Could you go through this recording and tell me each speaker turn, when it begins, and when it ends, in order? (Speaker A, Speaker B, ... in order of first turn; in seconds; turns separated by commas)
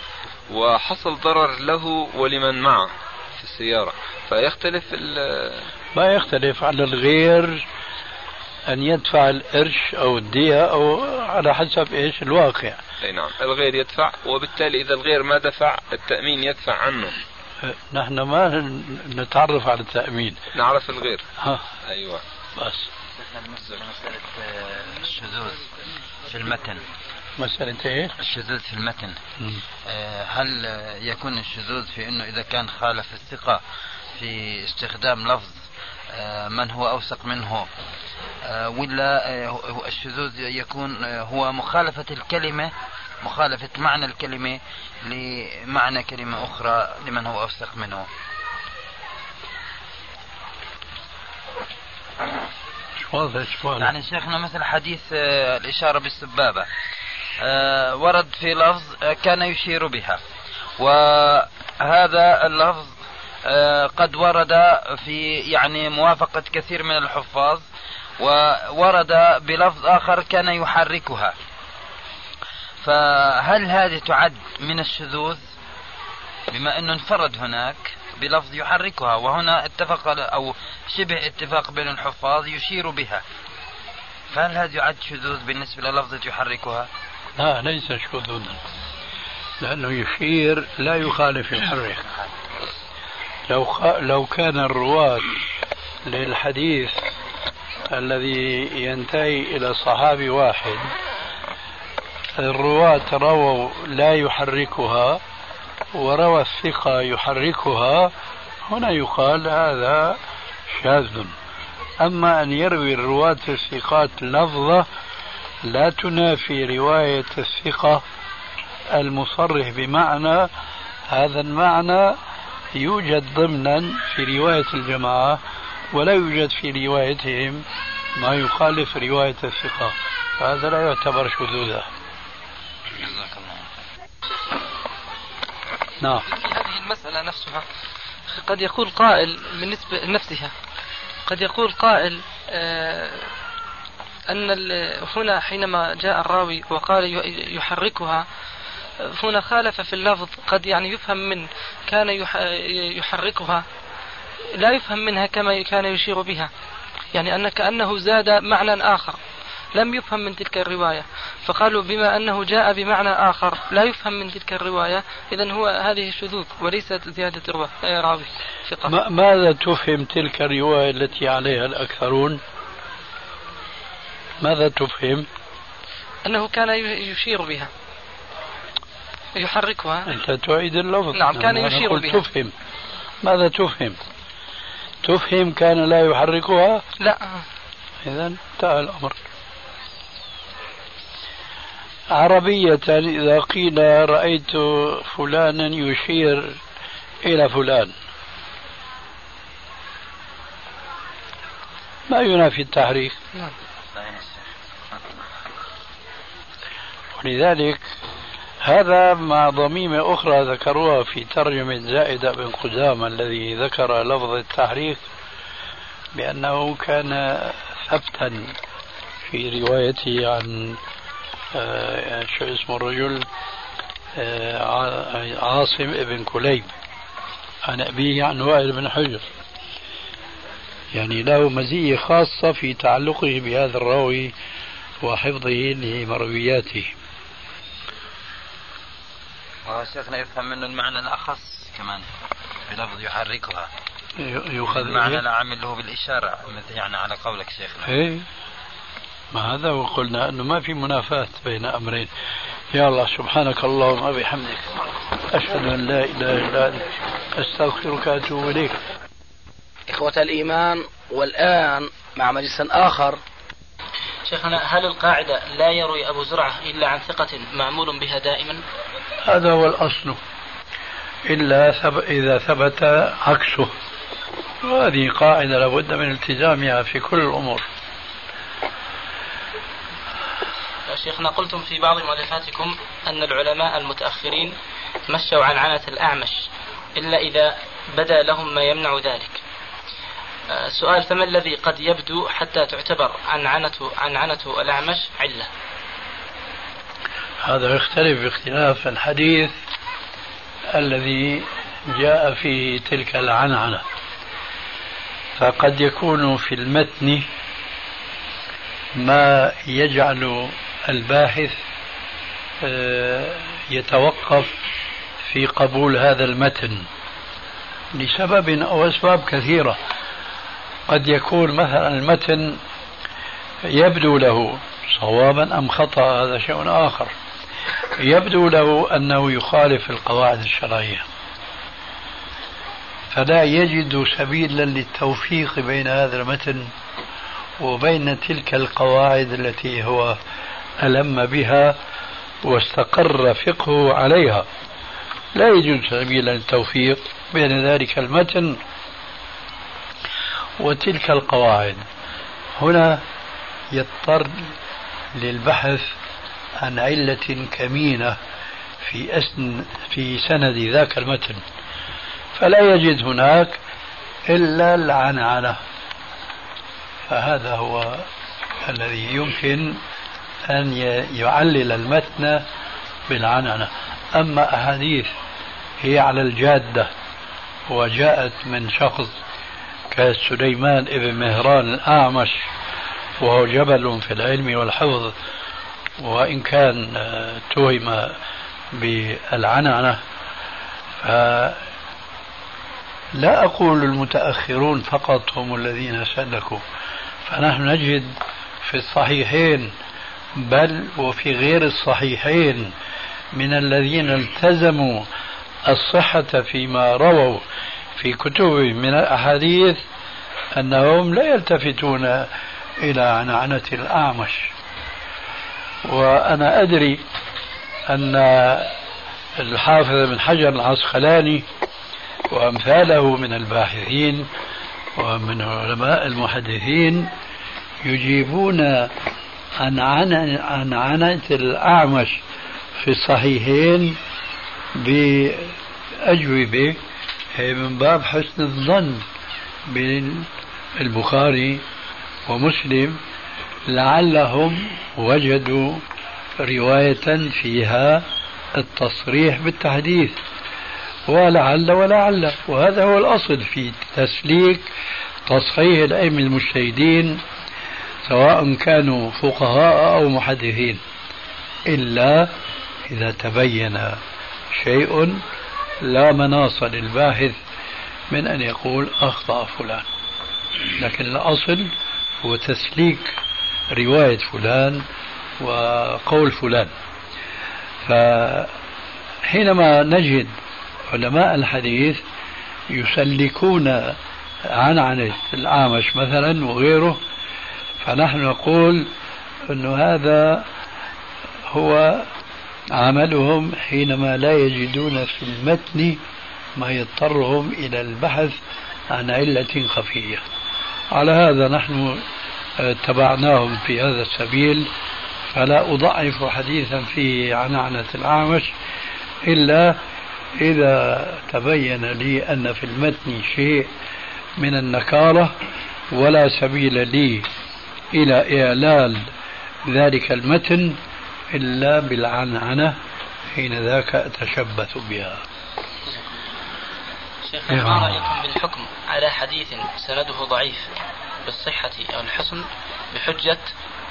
Speaker A: 0.5-5.7, Speaker B: 6.0-7.7, Speaker B: 8.7-12.8, Speaker A: 13.0-17.2, Speaker B: 17.6-20.4, Speaker A: 20.6-21.3, Speaker B: 21.4-21.6, Speaker A: 21.9-22.2, Speaker B: 22.6-22.9, Speaker C: 23.2-25.7, Speaker C: 26.3-26.8, Speaker B: 27.4-28.1, Speaker C: 28.2-29.2, Speaker C: 29.9-33.6, Speaker C: 34.1-37.7, Speaker C: 38.4-48.1, Speaker B: 53.1-53.9, Speaker C: 53.8-56.7, Speaker C: 57.4-60.2, Speaker C: 60.8-63.0, Speaker C: 63.5-67.7, Speaker C: 68.2-71.3, Speaker C: 72.8-75.5, Speaker C: 76.5-83.2, Speaker C: 84.3-86.9, Speaker B: 87.4-88.6, Speaker B: 89.6-92.1, Speaker B: 93.5-95.3, Speaker B: 96.1-97.0, Speaker B: 97.9-100.9, Speaker B: 102.4-105.2, Speaker B: 106.0-108.1, Speaker B: 108.7-110.2, Speaker B: 110.7-111.3, Speaker B: 112.0-114.9, Speaker B: 115.7-118.0, Speaker B: 118.9-120.5, Speaker B: 121.1-122.2, Speaker B: 122.7-125.4, Speaker B: 125.9-127.6, Speaker B: 128.2-131.9, Speaker C: 133.0-133.7, Speaker D: 136.3-137.7, Speaker D: 138.3-140.5, Speaker D: 141.3-143.3, Speaker D: 144.3-148.2, Speaker D: 149.0-153.6, Speaker D: 154.6-156.5, Speaker D: 157.1-159.2, Speaker D: 159.7-168.9, Speaker B: 168.9-172.4, Speaker B: 174.4-175.3, Speaker D: 176.2-177.7, Speaker D: 179.3-180.1, Speaker B: 180.1-182.5, Speaker D: 181.1-182.2, Speaker B: 183.2-184.0, Speaker B: 185.0-186.8, Speaker D: 187.0-187.3, Speaker B: 188.0-189.2, Speaker B: 192.1-196.6, Speaker B: 197.2-197.9, Speaker B: 202.1-203.2, Speaker C: 203.9-204.4, Speaker B: 207.2-207.8, Speaker B: 208.6-215.0, Speaker B: 216.1-218.6, Speaker B: 219.3-220.8, Speaker B: 221.5-223.3, Speaker B: 224.2-226.7, Speaker B: 227.7-229.3, Speaker B: 230.9-234.3, Speaker B: 235.0-236.9, Speaker C: 239.7-242.1, Speaker C: 242.7-243.7, Speaker B: 244.2-245.2, Speaker C: 244.7-247.9, Speaker B: 247.9-248.3, Speaker B: 249.3-252.1, Speaker B: 252.7-254.7, Speaker B: 255.3-258.8, Speaker E: 259.9-263.2, Speaker F: 264.3-268.6, Speaker B: 269.2-270.2, Speaker B: 271.3-273.7, Speaker B: 274.6-277.7, Speaker F: 280.9-284.5, Speaker F: 285.1-286.4, Speaker F: 287.0-287.4, Speaker F: 288.0-289.4, Speaker F: 290.7-295.5, Speaker B: 297.4-299.6, Speaker B: 300.7-303.9, Speaker B: 305.4-307.3, Speaker B: 309.0-311.6, Speaker B: 312.6-314.6, Speaker B: 315.3-316.9, Speaker B: 317.9-319.8, Speaker B: 320.9-322.6, Speaker B: 323.6-327.1, Speaker B: 328.0-331.1, Speaker B: 333.1-336.7, Speaker B: 337.6-340.2, Speaker B: 340.8-341.8, Speaker B: 342.4-344.5, Speaker B: 345.4-348.6, Speaker B: 350.6-351.8, Speaker B: 352.6-353.0, Speaker B: 353.7-354.5, Speaker B: 355.1-355.9, Speaker B: 356.6-358.2, Speaker B: 358.8-361.4, Speaker B: 362.4-363.6, Speaker B: 364.3-365.6, Speaker B: 367.1-368.1, Speaker B: 368.6-369.8, Speaker B: 370.5-372.4, Speaker B: 373.1-375.1, Speaker B: 375.8-376.9, Speaker B: 377.7-379.1, Speaker B: 379.9-382.4, Speaker B: 383.2-385.1, Speaker B: 386.0-388.2, Speaker B: 388.7-390.0, Speaker B: 391.0-391.6, Speaker B: 393.2-396.6, Speaker B: 397.3-399.7, Speaker B: 400.4-402.7, Speaker B: 403.3-405.1, Speaker B: 405.7-407.4, Speaker B: 408.0-409.8, Speaker B: 410.6-414.5, Speaker B: 415.9-417.0, Speaker B: 417.9-418.8, Speaker B: 419.4-421.5, Speaker B: 422.3-424.3, Speaker B: 425.0-427.1, Speaker B: 427.8-428.9, Speaker B: 429.6-432.2, Speaker B: 432.8-434.0, Speaker B: 434.8-436.8, Speaker B: 437.4-439.1, Speaker B: 439.7-441.6, Speaker B: 442.3-443.0, Speaker B: 443.7-445.8, Speaker B: 446.4-450.2, Speaker B: 451.1-454.7, Speaker B: 455.3-457.2, Speaker B: 458.1-460.8, Speaker B: 461.7-462.3, Speaker B: 462.9-464.0, Speaker B: 464.6-465.2, Speaker B: 465.8-467.4, Speaker B: 468.1-469.9, Speaker B: 470.8-471.7, Speaker B: 472.2-473.1, Speaker B: 473.7-474.8, Speaker B: 475.4-476.7, Speaker B: 477.9-478.5, Speaker B: 479.3-480.3, Speaker B: 480.9-482.0, Speaker B: 482.7-484.0, Speaker B: 484.5-487.0, Speaker B: 487.8-488.9, Speaker B: 489.5-490.4, Speaker B: 491.5-492.1, Speaker B: 492.7-496.0, Speaker B: 496.6-500.2, Speaker B: 500.9-502.0, Speaker B: 502.6-504.7, Speaker B: 505.3-508.5, Speaker B: 509.3-509.8, Speaker B: 510.4-513.7, Speaker B: 514.4-515.3, Speaker B: 515.9-517.3, Speaker B: 517.9-519.1, Speaker B: 519.7-520.8, Speaker B: 521.3-522.8, Speaker B: 523.4-525.2, Speaker F: 527.4-530.6, Speaker B: 527.5-528.0, Speaker F: 531.3-532.4, Speaker F: 533.0-533.4